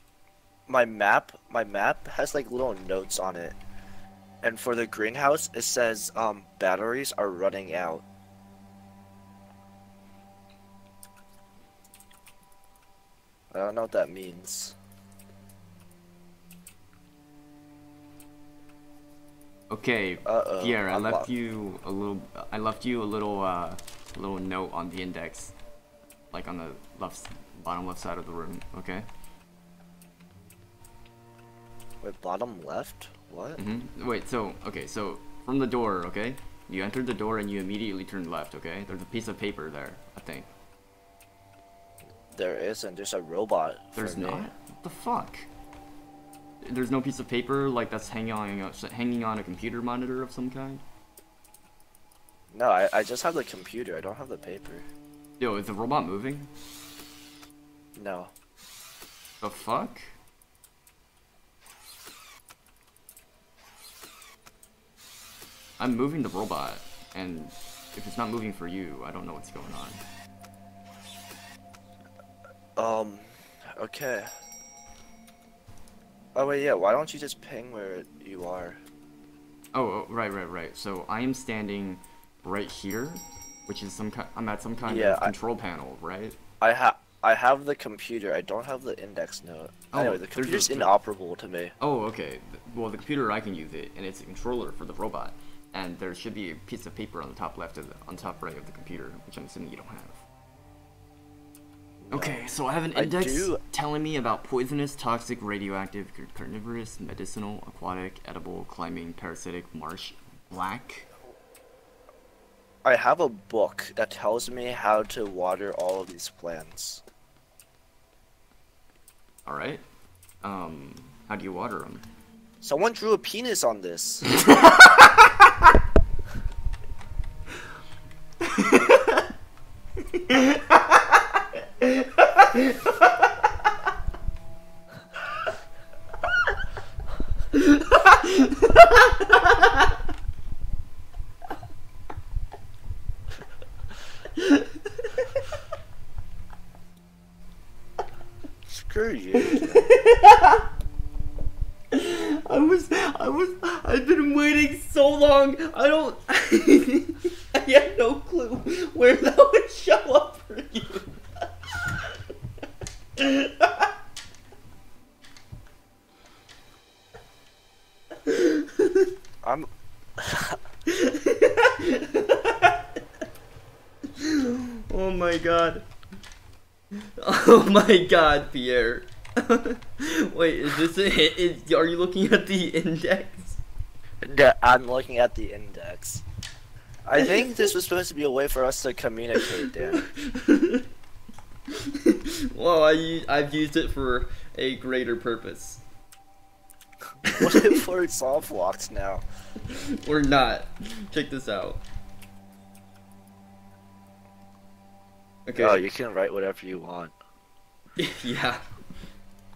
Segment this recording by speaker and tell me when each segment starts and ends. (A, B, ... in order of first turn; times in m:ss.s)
0:00.7-0:03.6 A
0:04.4-0:08.0 A
0:13.5-0:14.7 A
0:19.7-0:25.5 B
0:20.2-0:21.3 A
0:26.3-0:29.1 B
0:32.0-0:33.6 A
0:33.6-0:40.5 B
0:42.3-0:44.5 A
0:43.9-0:45.5 B
0:46.6-0:50.8 B
0:52.5-0:54.8 A
0:55.4-0:56.5 B
0:58.0-0:58.3 A
0:59.4-1:00.1 B
1:05.8-1:10.0 B
1:12.8-1:14.3 A
1:16.3-1:18.8 A
1:19.7-1:26.4 B
1:24.8-1:25.3 A
1:26.6-1:31.7 A
1:29.9-1:31.0 B
1:31.8-1:40.2 B
1:42.0-1:42.4 A
1:42.1-1:51.1 B
1:42.9-1:43.6 A
1:52.8-1:57.0 A
1:59.4-1:59.8 B
2:00.4-2:02.0 B
2:02.6-2:04.3 A
2:04.4-2:05.3 B
2:08.4-2:09.2 B
2:10.1-2:11.2 B
2:11.8-2:13.1 B
2:17.5-2:19.8 B
2:24.4-2:25.4 B
2:28.7-2:29.9 A
2:29.4-2:30.6 B
2:31.9-2:41.1 B
2:43.2-2:43.8 B
2:48.3-2:48.8 B
2:49.4-2:50.6 A
2:50.9-2:52.7 B
2:54.2-2:55.8 B
2:57.2-3:03.6 B
3:04.2-3:06.2 A
3:07.0-3:10.0 A
3:09.9-3:10.8 B
3:11.8-3:15.8 B
3:17.3-3:17.8 B
3:17.3-3:19.2 A
3:19.6-3:21.8 B
3:25.4-3:25.9 B
3:25.6-3:27.1 A
3:28.0-3:28.6 B